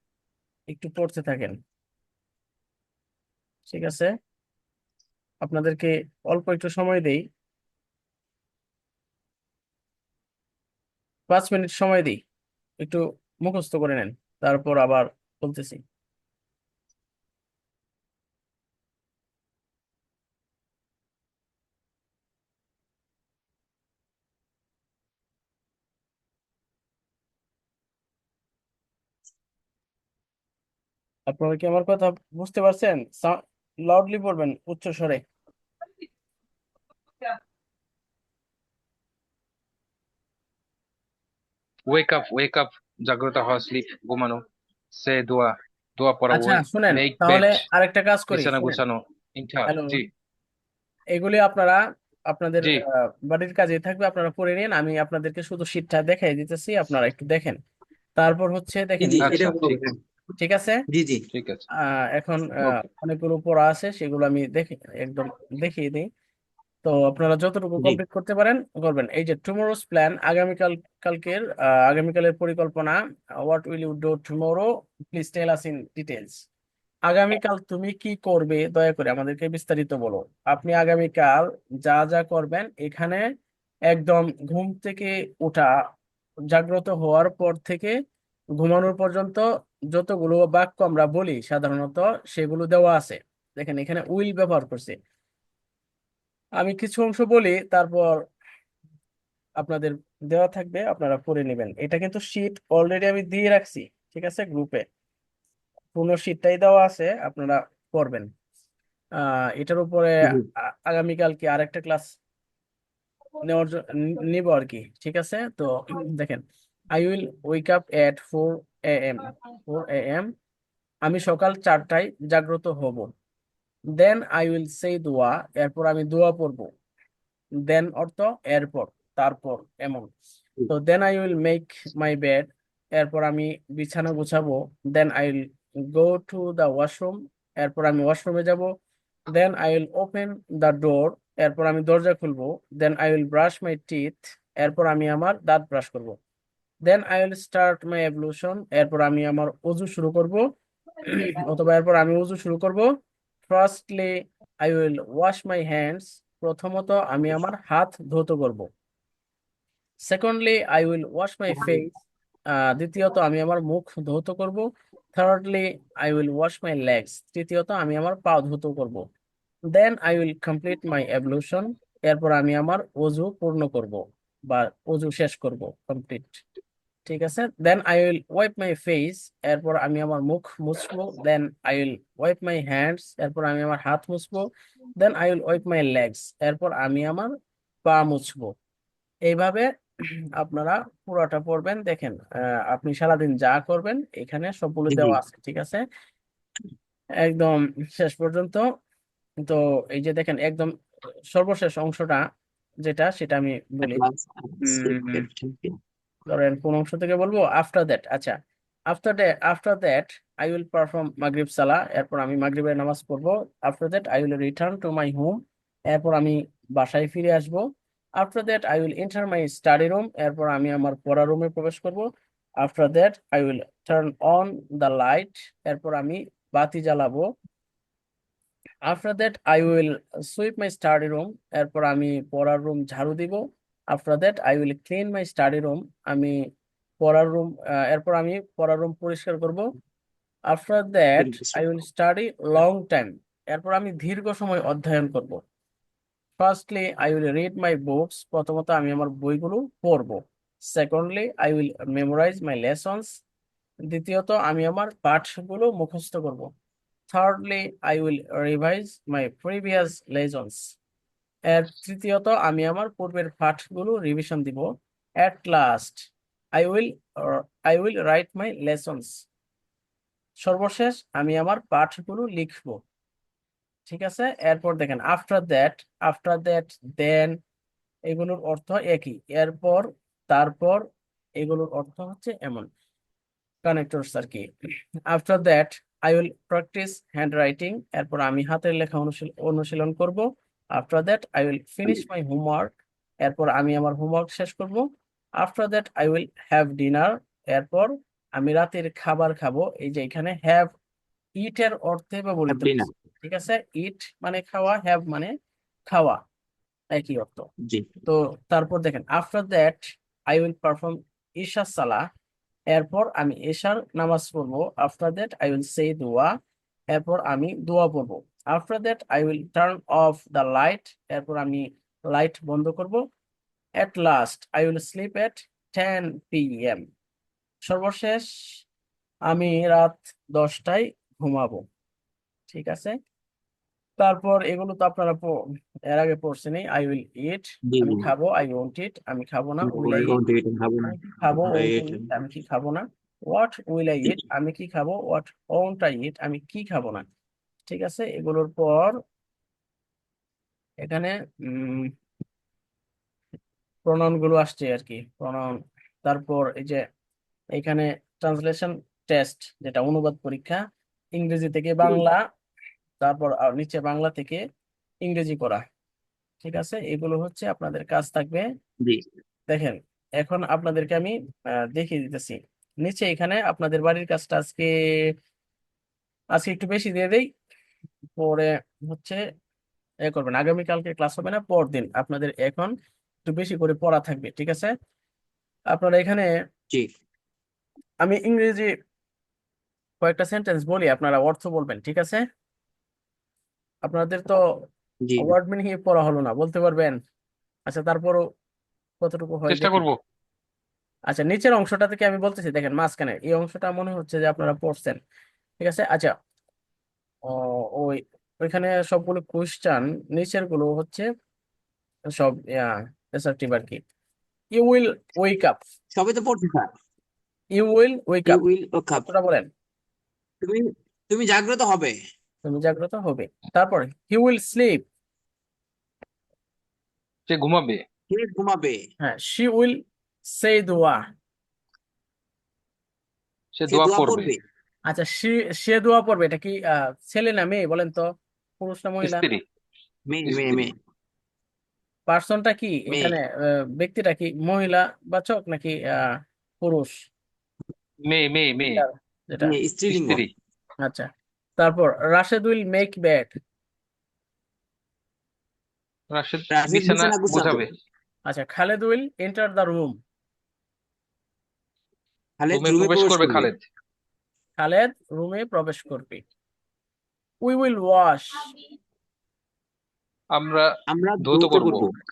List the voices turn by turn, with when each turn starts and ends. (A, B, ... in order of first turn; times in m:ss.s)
0:00.7-0:01.6 A
0:03.7-0:04.1 A
0:05.4-0:07.2 A
0:11.3-0:12.2 A
0:12.8-0:15.8 A
0:31.3-0:35.2 A
0:41.9-0:47.6 B
0:46.3-0:48.8 A
0:48.3-0:50.0 B
0:49.7-0:50.0 A
0:51.1-0:57.6 A
0:58.2-0:59.5 A
0:59.0-1:00.0 C
0:59.2-0:59.8 B
1:00.4-1:00.8 A
1:00.9-1:01.2 C
1:01.3-1:01.6 B
1:01.8-1:06.1 A
1:06.8-1:16.4 A
1:17.1-1:23.2 A
1:23.9-1:25.7 A
1:26.5-1:28.0 A
1:28.6-1:35.0 A
1:36.6-1:38.2 A
1:39.6-1:44.8 A
1:45.9-1:48.3 A
1:49.2-1:52.2 A
1:53.4-1:56.4 A
1:56.9-2:00.3 A
2:01.0-2:03.1 A
2:04.0-2:06.7 A
2:07.7-2:10.1 A
2:10.7-2:18.7 A
2:19.3-2:26.2 A
2:26.8-2:30.4 A
2:31.0-2:32.8 A
2:33.4-2:34.1 A
2:34.6-2:38.6 A
2:40.1-2:41.9 A
2:41.5-2:41.8 C
2:42.6-2:49.0 A
2:49.7-2:56.4 A
2:57.0-3:04.4 A
3:05.0-3:07.3 A
3:07.8-3:08.5 A
3:09.3-3:09.7 A
3:10.4-3:15.8 A
3:14.9-3:15.2 C
3:17.2-3:18.6 A
3:19.4-3:20.7 A
3:21.3-3:22.2 A
3:22.8-3:24.0 A
3:23.8-3:25.8 C
3:24.6-3:25.2 A
3:26.3-3:28.3 A
3:28.9-3:37.6 A
3:38.2-3:42.1 A
3:42.6-3:47.3 A
3:48.9-3:56.4 A
3:57.0-3:59.6 A
4:00.5-4:05.4 A
4:01.2-4:01.7 C
4:06.4-4:13.1 A
4:13.9-4:16.5 A
4:17.1-4:20.7 A
4:21.5-4:24.7 A
4:25.2-4:29.2 A
4:30.4-4:32.8 A
4:33.9-4:37.4 A
4:38.1-4:40.8 A
4:41.4-4:42.7 A
4:43.6-4:44.4 A
4:45.1-4:54.8 A
4:55.4-5:00.7 A
5:01.4-5:05.3 A
5:02.5-5:02.9 C
5:05.9-5:06.2 A
5:06.9-5:07.5 A
5:08.0-5:12.0 A
5:12.7-5:16.3 A
5:16.9-5:23.0 A
5:23.8-5:26.8 A
5:27.7-5:28.2 A
5:29.3-5:31.6 A
5:32.5-5:33.0 A
5:34.0-5:35.3 A
5:35.9-5:40.2 A
5:37.7-5:38.1 C
5:39.6-5:42.1 C
5:40.9-5:47.0 A
5:47.6-5:49.0 A
5:50.8-5:51.9 A
5:53.8-5:56.8 A
5:57.5-6:00.6 A
6:01.2-6:02.2 A
6:03.0-6:04.4 A
6:05.0-6:05.6 A
6:06.4-6:08.4 A
6:09.5-6:14.7 A
6:16.3-6:17.3 A
6:18.2-6:19.2 A
6:20.0-6:22.7 A
6:23.2-6:24.7 A
6:25.7-6:26.3 A
6:28.0-6:28.7 A
6:30.0-6:32.2 A
6:33.8-6:34.4 A
6:35.0-6:35.3 C
6:35.2-6:37.0 A
6:37.7-6:38.2 A
6:39.0-6:39.8 A
6:39.5-6:40.0 B
6:41.1-6:45.0 A
6:45.6-6:46.1 A
6:47.3-6:51.1 A
6:52.1-6:53.8 A
6:54.5-6:55.6 A
6:55.9-6:56.7 C
6:57.6-6:58.4 A
6:58.2-6:59.0 C
6:59.0-6:59.5 A
7:00.4-7:01.9 C
7:02.4-7:04.8 A
7:07.3-7:07.8 B
7:08.1-7:08.8 C
7:09.0-7:09.8 A
7:10.3-7:11.0 A
7:13.6-7:14.3 B
7:13.7-7:14.4 C
7:14.9-7:18.1 A
7:18.6-7:19.2 A
7:19.0-7:19.4 B
7:20.1-7:20.7 C
7:20.2-7:20.7 B
7:22.1-7:23.2 A
7:22.9-7:23.2 C
7:23.8-7:26.9 A
7:28.0-7:28.8 B
7:28.7-7:29.5 A
7:29.4-7:30.3 C
7:29.9-7:30.3 B
7:30.8-7:31.1 A
7:31.6-7:33.3 A
7:36.1-7:37.7 B
7:36.5-7:37.7 C
7:38.2-7:40.0 A
7:42.4-7:43.5 C
7:42.5-7:43.6 B
7:44.6-7:46.2 A
7:47.4-7:48.5 A
7:50.3-7:50.6 B
7:50.9-7:51.9 C
7:51.2-7:51.9 B